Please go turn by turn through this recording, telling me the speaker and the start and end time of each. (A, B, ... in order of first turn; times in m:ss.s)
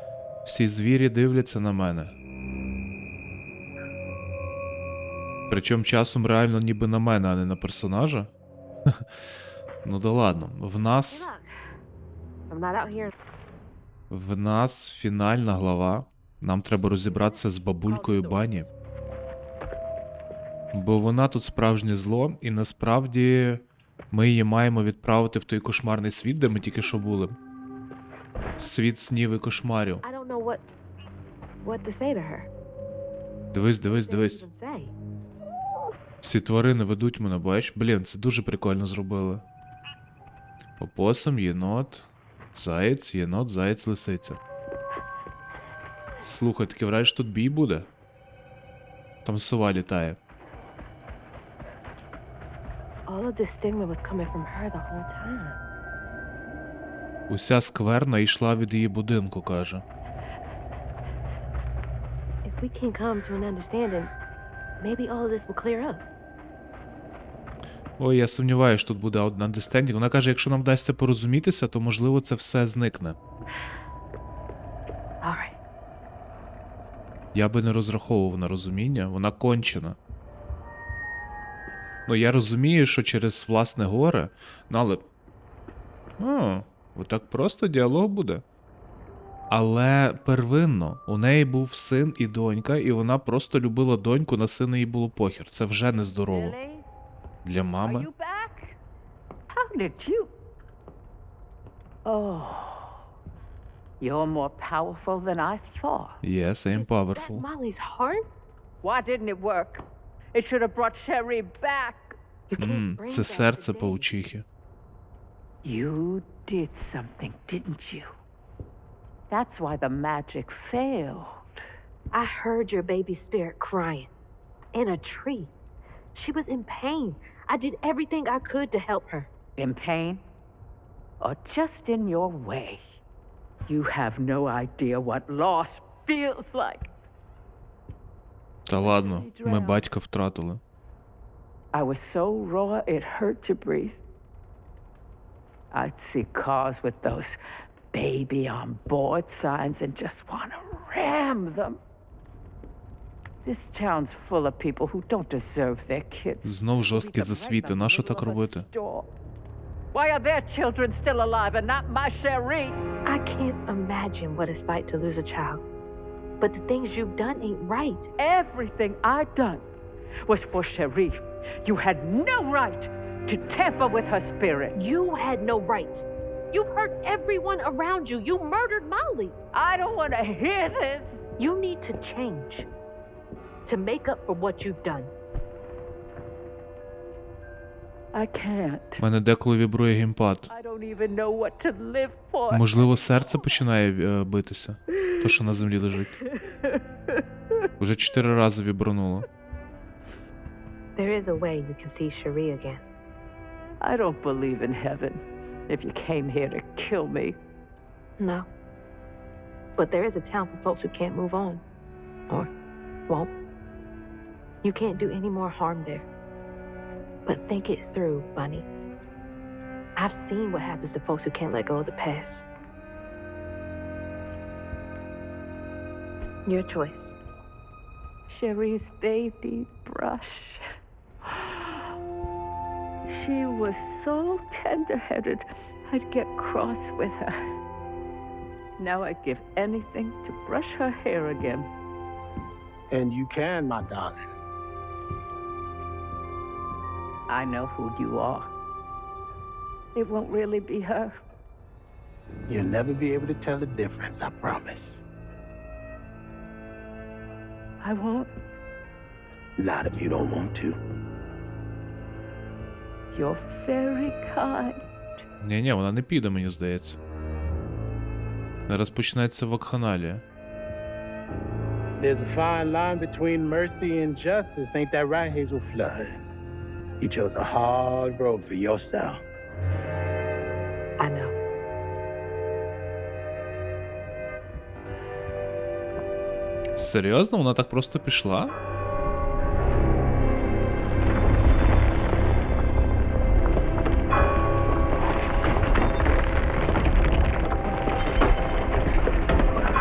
0:00.4-0:02.1 A
0:05.5-0:08.3 A
0:09.8-0:11.3 A
0:11.1-0:11.6 B
0:12.5-0:13.1 B
0:14.1-0:18.7 A
0:17.0-0:18.7 B
0:20.7-0:27.4 A
0:28.6-0:30.0 A
0:30.0-0:30.6 B
0:31.6-0:32.5 B
0:33.5-0:34.4 A
0:33.9-0:35.0 B
0:36.2-0:39.4 A
0:40.8-0:44.4 A
0:46.2-0:47.9 A
0:49.2-0:50.2 A
0:53.1-0:55.6 B
0:57.3-0:59.8 A
1:02.4-1:04.1 B
1:04.8-1:06.1 B
1:08.0-1:13.2 A
1:15.2-1:15.6 B
1:17.3-1:20.0 A
1:22.1-1:25.0 A
1:26.2-1:28.4 A
1:29.5-1:36.6 A
1:36.2-1:36.8 C
1:37.4-1:38.1 A
1:37.8-1:38.8 C
1:39.5-1:40.3 C
1:42.0-1:43.0 C
1:44.0-1:46.2 C
1:46.2-1:47.5 A
1:46.7-1:48.2 B
1:48.8-1:52.2 C
1:52.5-1:54.1 B
1:52.6-1:54.5 A
1:55.6-1:58.1 C
1:59.3-2:01.5 C
2:02.1-2:04.1 B
2:04.7-2:05.5 B
2:06.2-2:09.3 B
2:09.6-2:10.2 C
2:11.2-2:12.8 C
2:13.7-2:16.9 C
2:18.7-2:20.6 A
2:18.8-2:19.8 C
2:21.7-2:24.0 C
2:25.7-2:27.4 C
2:27.9-2:31.8 C
2:33.4-2:39.1 C
2:36.4-2:38.7 A
2:39.9-2:42.8 C
2:43.1-2:45.6 B
2:46.4-2:48.1 B
2:48.2-2:49.6 C
2:50.2-2:54.8 C
2:54.8-2:59.4 B
2:59.5-3:01.2 C
3:01.4-3:02.7 B
3:03.6-3:05.1 B
3:08.1-3:09.0 C
3:09.0-3:10.5 A
3:10.5-3:12.9 C
3:12.5-3:16.2 A
3:17.8-3:19.2 A
3:21.0-3:22.8 B
3:23.8-3:27.4 C
3:28.2-3:28.5 B
3:29.8-3:31.6 B
3:34.6-3:36.1 B
3:37.3-3:38.7 B
3:40.0-3:42.5 B
3:46.5-3:47.2 B
3:48.3-3:50.6 C
3:51.3-3:51.9 C
3:53.1-3:57.4 C
3:58.8-4:01.7 C
4:02.9-4:04.2 D
4:07.3-4:08.5 C
4:10.0-4:11.2 C
4:12.5-4:15.0 D
4:17.8-4:18.3 C
4:19.6-4:20.8 D
4:23.1-4:24.8 C
4:25.4-4:27.0 A
4:28.7-4:30.2 A
4:32.0-4:36.2 D
4:37.0-4:39.2 D
4:41.0-4:41.3 B
4:46.8-4:48.5 A